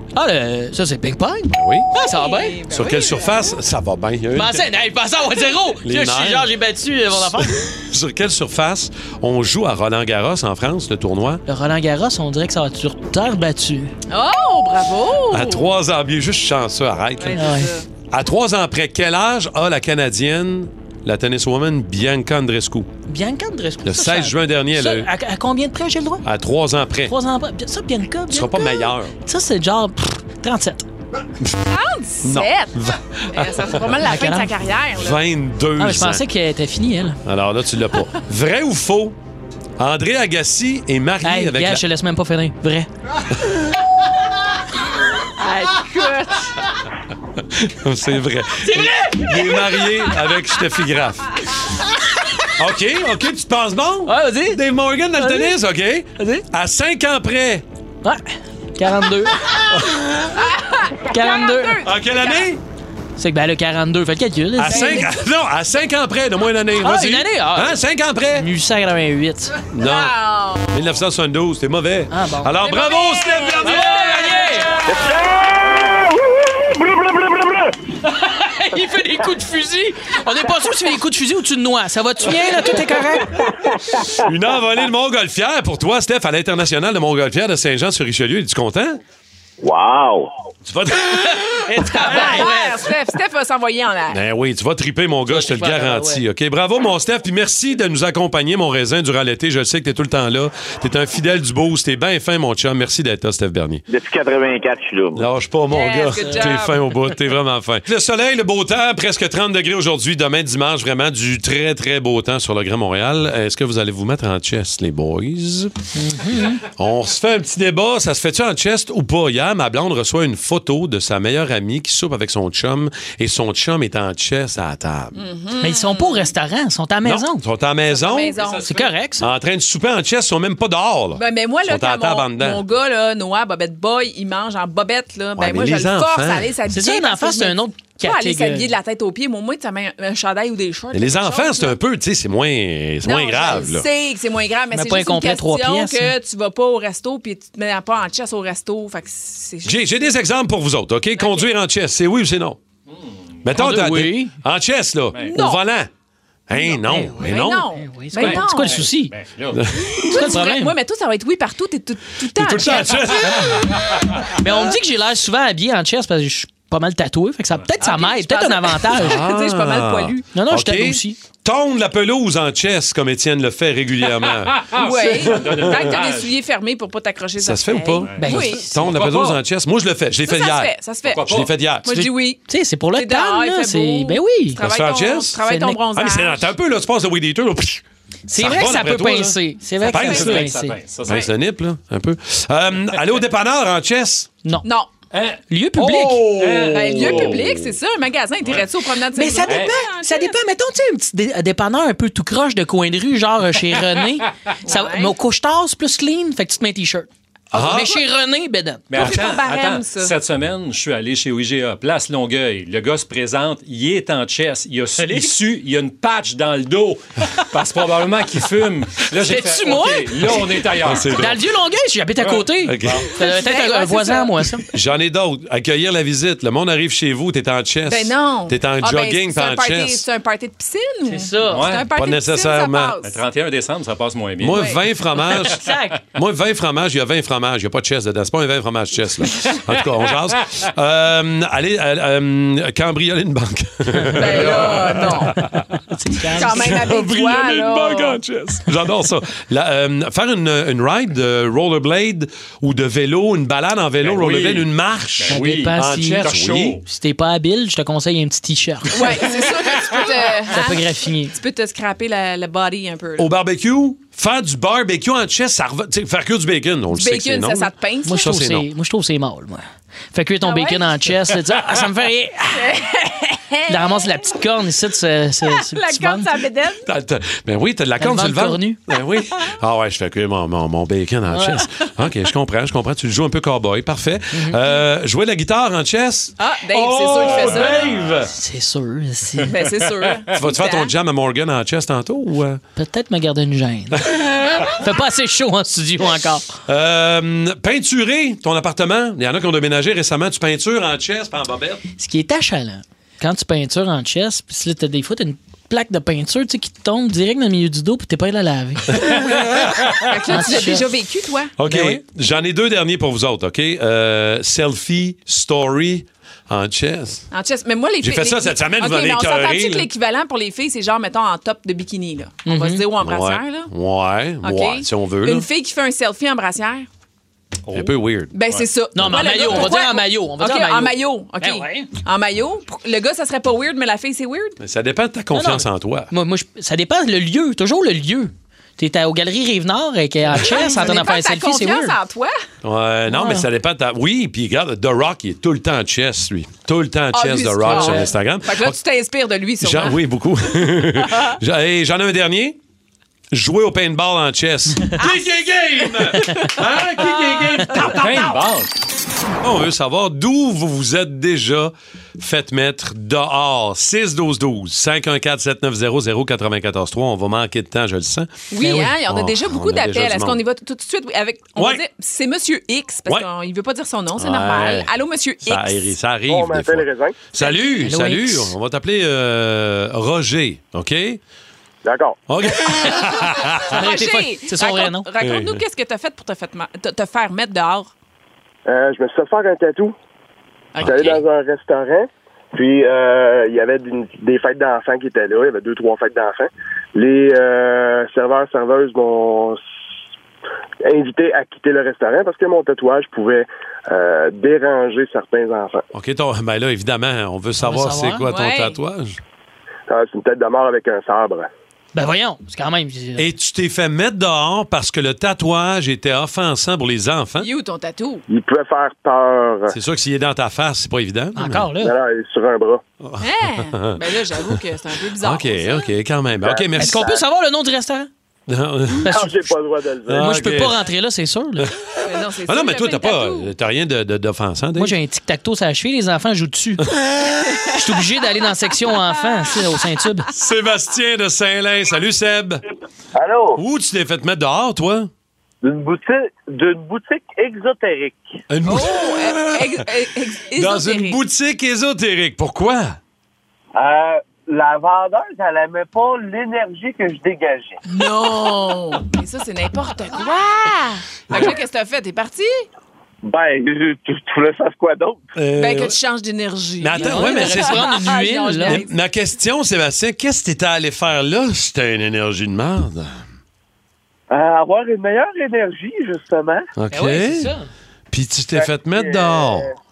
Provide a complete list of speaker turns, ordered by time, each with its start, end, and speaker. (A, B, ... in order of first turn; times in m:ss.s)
0:00.2-0:02.6 A
0:01.5-0:01.9 B
0:01.9-0:03.6 C
0:02.7-0:04.7 B
0:04.4-0:07.6 A
0:05.8-0:06.5 B
0:07.1-0:11.4 B
0:11.5-0:13.9 A
0:14.1-0:15.6 C
0:15.3-0:17.5 B
0:17.2-0:17.9 C
0:17.3-0:17.7 A
0:18.1-0:22.9 B
0:23.1-0:26.2 A
0:23.8-0:25.1 B
0:26.2-0:27.1 B
0:27.1-0:30.9 A
0:28.3-0:29.1 B
0:31.7-0:32.7 C
0:32.2-0:33.9 B
0:33.3-0:35.2 C
0:34.0-0:34.5 A
0:35.0-0:36.2 B
0:35.8-0:37.2 A
0:37.2-0:39.2 B
0:39.8-0:41.8 B
0:41.2-0:42.9 A
0:45.4-0:46.5 C
0:47.5-0:51.4 B
0:48.6-0:49.8 A
0:52.6-0:57.6 B
0:54.1-0:54.6 A
0:55.2-0:55.5 A
0:56.2-0:56.4 A
0:58.8-0:59.4 A
0:59.7-1:00.3 B
1:00.3-1:02.5 C
1:01.1-1:01.8 A
1:01.8-1:02.6 B
1:03.2-1:05.1 A
1:04.6-1:08.5 B
1:04.6-1:05.2 C
1:06.8-1:07.8 A
1:08.4-1:09.6 A
1:09.7-1:10.2 B
1:09.8-1:10.7 C
1:10.7-1:14.3 B
1:12.1-1:12.6 A
1:12.6-1:14.6 C
1:13.6-1:14.8 A
1:14.8-1:17.7 D
1:18.1-1:23.4 A
1:23.6-1:24.0 D
1:24.2-1:29.0 B
1:29.6-1:30.3 D
1:30.7-1:32.5 B
1:31.2-1:32.9 A
1:32.0-1:34.2 C
1:34.1-1:43.8 B
1:35.3-1:36.2 A
1:43.9-1:45.2 D
1:45.1-1:55.7 B
1:45.7-1:46.8 C
1:46.2-1:46.6 A
1:56.0-1:56.6 A
1:56.6-2:05.2 B
2:05.2-2:06.3 C
2:05.6-2:07.4 A
2:07.0-2:08.4 B
2:07.9-2:08.8 C
2:08.3-2:08.9 E
2:08.6-2:09.3 A
2:09.2-2:12.6 B
2:11.2-2:21.8 C
2:15.4-2:16.5 B
2:16.7-2:18.7 A
2:20.9-2:23.9 B
2:23.0-2:29.9 C
2:24.7-2:26.2 A
2:29.6-2:32.6 B
2:31.2-2:31.5 C
2:32.9-2:33.5 E
2:33.4-2:35.9 B
2:33.5-2:34.3 A
2:35.2-2:35.6 C
2:36.5-2:37.7 B
2:36.9-2:39.1 A
2:37.2-2:38.8 C
2:38.2-2:39.7 E
2:39.5-2:40.1 B
2:40.1-2:43.4 C
2:40.1-2:40.8 A
2:42.3-2:43.9 B
2:44.4-2:49.2 A
2:47.8-2:50.2 C
2:49.0-2:54.7 B
2:50.3-2:51.2 A
2:54.3-2:56.3 E
2:54.8-2:58.7 C
2:55.3-2:55.9 B
2:57.4-3:01.9 B
2:58.1-2:59.4 E
2:58.2-2:58.8 A
3:00.3-3:01.3 C
3:01.1-3:01.5 E
3:01.8-3:02.4 C
3:02.0-3:04.6 A
3:02.9-3:06.5 C
3:04.6-3:05.4 B
3:05.4-3:05.8 A
3:05.9-3:07.8 B
3:08.3-3:10.8 A
3:08.4-3:10.5 B
3:09.9-3:10.4 C
3:10.0-3:11.3 E
3:11.0-3:14.3 B
3:14.6-3:14.9 C
3:15.1-3:15.4 E
3:15.5-3:16.5 A
3:15.8-3:17.6 B
3:15.9-3:17.6 E
3:16.7-3:20.4 C
3:19.2-3:29.0 A
3:19.5-3:19.7 E
3:24.7-3:25.2 C
3:27.5-3:28.0 B
3:28.9-3:41.3 E
3:29.0-3:30.2 C
3:39.2-3:40.3 A
3:40.8-3:41.4 B
3:41.1-3:44.7 A
3:42.2-3:43.1 E
3:42.6-3:43.1 B
3:43.2-3:44.4 C
3:44.7-3:50.0 B
3:47.9-3:53.2 C
3:51.1-3:51.7 A
3:51.4-3:51.9 E
3:51.9-3:53.0 B
3:53.0-3:54.7 E
3:54.4-3:55.6 B
3:54.5-3:54.8 C
3:55.4-3:56.0 A
3:56.2-4:05.5 B
4:04.0-4:04.4 A
4:04.2-4:05.3 C
4:05.9-4:06.8 A
4:06.4-4:08.2 C
4:06.5-4:16.8 B
4:14.0-4:16.8 E
4:15.3-4:16.3 A
4:16.8-4:19.2 A
4:18.9-4:23.3 C
4:20.5-4:21.4 A
4:23.2-4:28.7 B
4:26.9-4:28.3 C
4:28.0-4:32.7 A
4:30.4-4:31.0 C
4:32.6-4:34.1 C
4:33.7-4:36.4 A
4:35.5-4:36.9 C
4:36.9-4:48.3 B
4:38.0-4:38.8 A
4:41.3-4:41.6 A
4:44.3-4:44.6 A
4:46.4-4:47.9 C
4:47.2-4:48.1 E
4:48.3-4:49.5 A
4:49.5-4:50.9 C
4:50.3-4:52.6 B
4:52.8-4:56.5 A
4:56.7-5:01.8 B
5:02.0-5:09.1 A
5:09.3-5:09.7 B
5:10.0-5:11.5 C
5:10.3-5:10.9 A
5:11.6-5:17.3 B
5:11.7-5:12.0 A
5:17.3-5:23.7 C
5:18.0-5:19.9 B
5:22.4-5:22.8 A
5:23.0-5:25.5 B
5:24.4-5:26.9 C
5:27.7-5:28.3 B
5:28.3-5:34.6 C
5:28.9-5:31.9 A
5:29.2-5:29.5 E
5:34.6-5:36.1 B
5:35.3-5:42.0 A
5:40.3-5:42.4 C
5:42.6-5:48.8 B
5:43.1-5:43.4 A
5:47.1-5:50.0 C
5:47.7-5:48.1 A
5:49.6-5:52.6 B
5:53.3-5:58.3 B
5:55.0-5:55.3 C
5:57.8-5:58.7 E
5:59.4-6:08.3 B
6:08.5-6:15.9 C
6:08.6-6:08.9 A
6:09.1-6:10.4 B
6:11.6-6:11.8 B
6:14.2-6:14.9 B
6:15.5-6:21.2 B
6:16.3-6:17.2 F
6:17.4-6:17.8 C
6:17.8-6:18.5 A
6:21.8-6:22.2 F
6:22.3-6:23.8 B
6:23.7-6:27.9 C
6:23.7-6:25.1 A
6:25.2-6:25.6 B
6:28.7-6:30.0 F
6:30.8-6:31.2 C
6:30.8-6:39.6 F
6:40.8-6:45.8 F
6:45.9-6:49.2 B
6:47.6-6:48.2 A
6:48.3-6:48.8 C
6:49.9-6:51.5 F
6:52.0-6:53.3 A
6:53.2-6:57.5 B
6:57.4-6:58.2 C
6:58.3-6:59.8 F
6:59.7-7:01.7 B
7:01.4-7:01.9 A
7:01.8-7:02.8 F
7:03.0-7:04.6 B
7:03.2-7:05.9 C
7:05.2-7:07.1 B
7:06.4-7:07.2 F
7:06.8-7:08.1 A
7:08.5-7:09.4 B
7:09.0-7:09.3 A
7:09.1-7:10.3 F
7:10.1-7:10.8 B
7:10.2-7:11.7 A
7:11.6-7:15.0 B
7:12.0-7:13.5 C
7:14.8-7:16.8 A
7:17.0-7:17.3 B
7:17.7-7:20.3 A
7:20.4-7:22.6 B
7:23.6-7:25.1 B
7:27.3-7:27.7 G
7:28.5-7:29.9 B
7:28.6-7:31.2 C
7:30.6-7:33.0 B
7:33.9-7:37.7 G
7:37.9-7:42.7 C
7:43.3-7:45.2 G
7:45.4-7:46.0 B
7:45.6-7:48.9 C
7:46.8-7:47.9 B
7:47.0-7:48.8 A
7:48.6-7:53.2 B
7:54.3-7:56.6 G
7:56.8-7:57.5 B
7:56.9-7:57.7 A
7:58.1-7:59.7 B
7:58.5-7:59.6 G